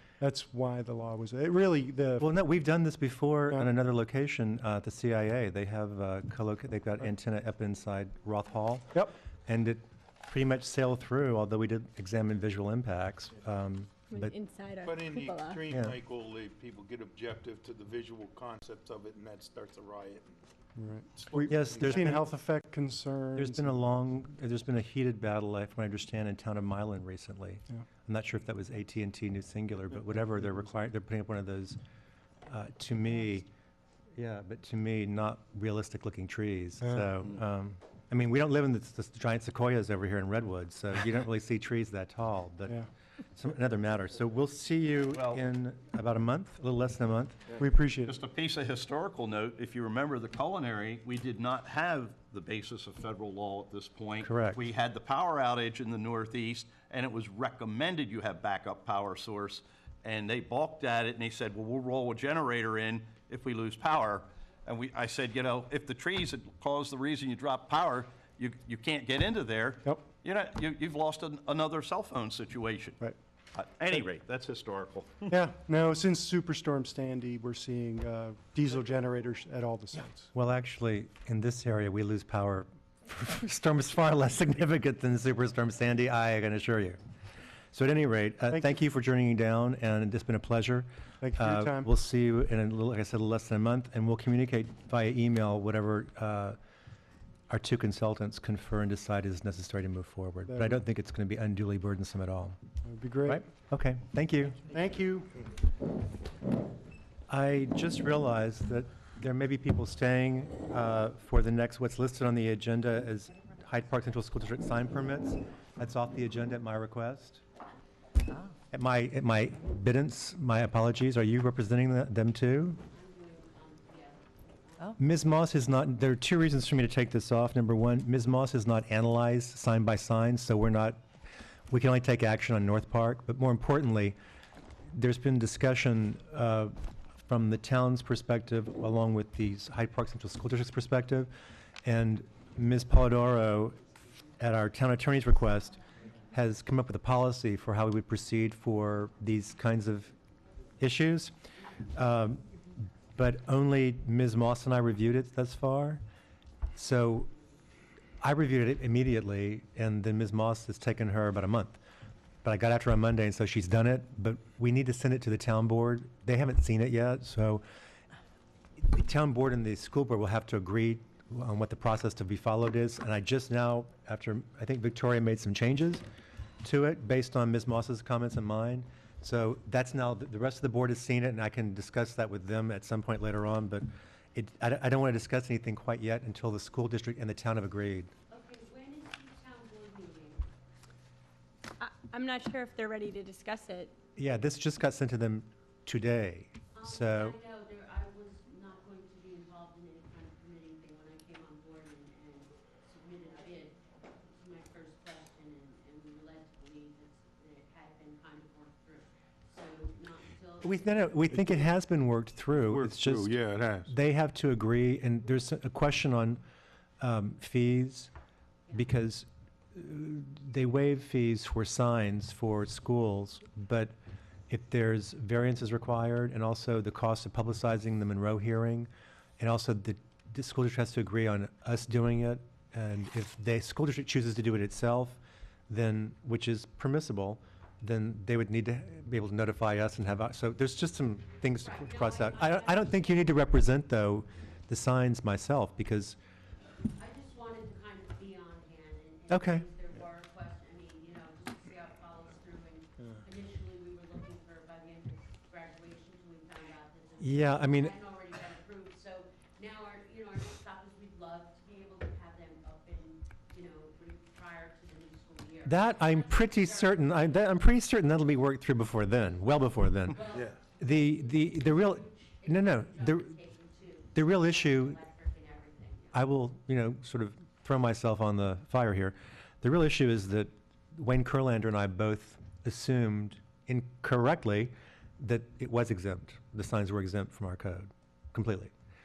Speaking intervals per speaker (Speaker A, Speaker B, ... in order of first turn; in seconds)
Speaker A: 0.2-2.3, 20.8-23.7, 47.6-48.2, 75.3-80.3, 91.2-91.9, 100.5-100.8, 102.8-103.4, 104.7-105.3
Speaker B: 2.2-14.3, 15.7-15.9, 21.5-22.2, 23.4-31.8, 32.5-33.5, 34.1-42.8, 43.3-47.4, 54.2-54.6, 80.3-87.0, 87.7-96.6, 97.5-102.6, 103.3-104.6, 107.3-117.4, 118.7-122.8, 125.0-131.0, 131.7-134.2, 134.9-136.8, 137.2-141.3, 141.8-143.8, 144.4-145.8, 146.3-150.1, 150.8-151.3, 151.9-152.4, 153.2-156.0, 156.8-157.3, 158.2-161.8, 162.4-167.6, 168.8-176.0, 176.6-188.1, 194.2-197.3, 210.6-216.4, 217.0-218.1, 218.7-223.9, 224.5-246.2, 249.3-249.6, 257.2-257.9, 265.6-270.2, 270.8-273.4, 274.1-275.0, 276.1-288.7
Speaker C: 14.1-15.6, 191.8-193.9
Speaker D: 14.8-20.3, 21.2-22.0, 212.7-213.9
Speaker E: 45.1-45.4, 48.1-73.0, 73.5-75.3
Speaker F: 122.8-125.0, 188.3-190.5, 196.7-211.2, 218.7-218.9, 241.6-243.5, 246.9-267.6, 270.1-276.3